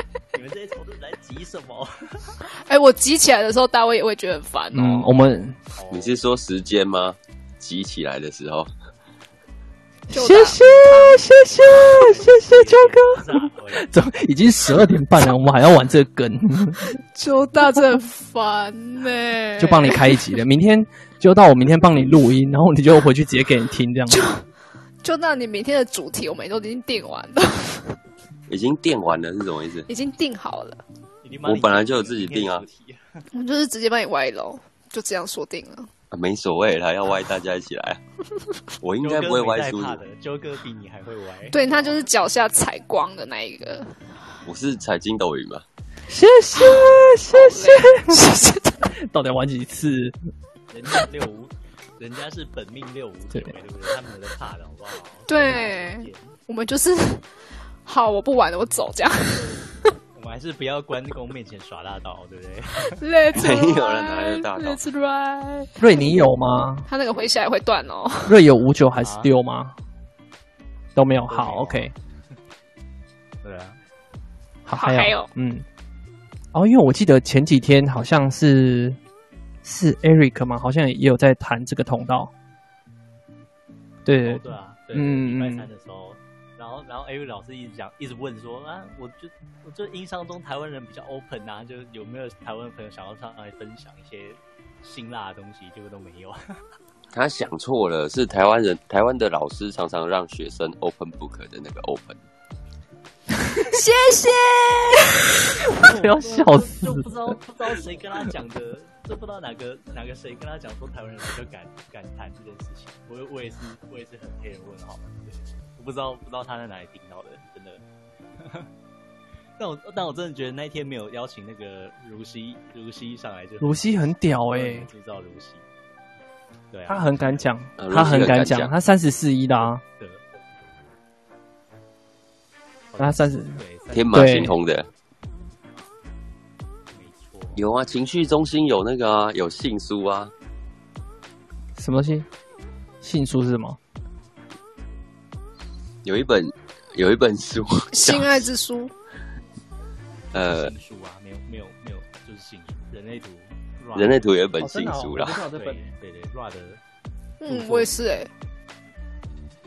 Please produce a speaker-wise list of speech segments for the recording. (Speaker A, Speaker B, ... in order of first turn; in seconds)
Speaker A: 0.3-2.4, 5.7-6.1, 11.4-13.9, 31.2-33.2, 39.0-42.0, 50.7-56.3, 59.3-63.0, 69.0-69.3, 71.3-71.9, 73.4-73.8, 84.2-96.6, 105.7-117.8, 118.4-118.7, 119.6-125.7, 126.7-127.5, 130.0-130.8, 132.9-134.6, 136.9-137.6, 150.3-154.4, 155.5-156.8, 157.4-158.2
Speaker B: 2.7-5.1, 10.1-11.2, 17.1-20.2, 24.1-24.4, 25.0-28.0, 29.9-30.8, 33.3-35.9, 41.5-44.0, 46.6-48.9, 55.3-57.2, 57.8-59.9, 62.8-65.8, 66.9-68.4, 74.8-75.3, 103.6-105.3, 147.9-148.9, 157.4-158.3
Speaker C: 4.7-5.6, 10.1-16.9, 19.6-24.2, 46.1-48.2, 49.0-50.1, 65.8-66.9, 68.2-69.7, 70.9-71.9, 74.7-75.7, 76.5-79.0, 79.6-82.3, 84.0-84.4, 84.9-85.7, 105.7-107.0, 123.6-124.9, 126.9-129.8, 133.0-133.6, 134.1-134.5, 141.8-142.2, 143.0-143.8, 154.6-155.8
Speaker D: 5.9-8.7, 28.5-29.9, 31.4-32.6, 36.1-38.0, 38.8-40.0, 44.5-45.6, 63.3-64.8, 97.1-102.2, 127.8-128.7, 133.9-134.9, 137.6-140.3, 146.0-148.4, 150.3-150.7, 153.9-155.4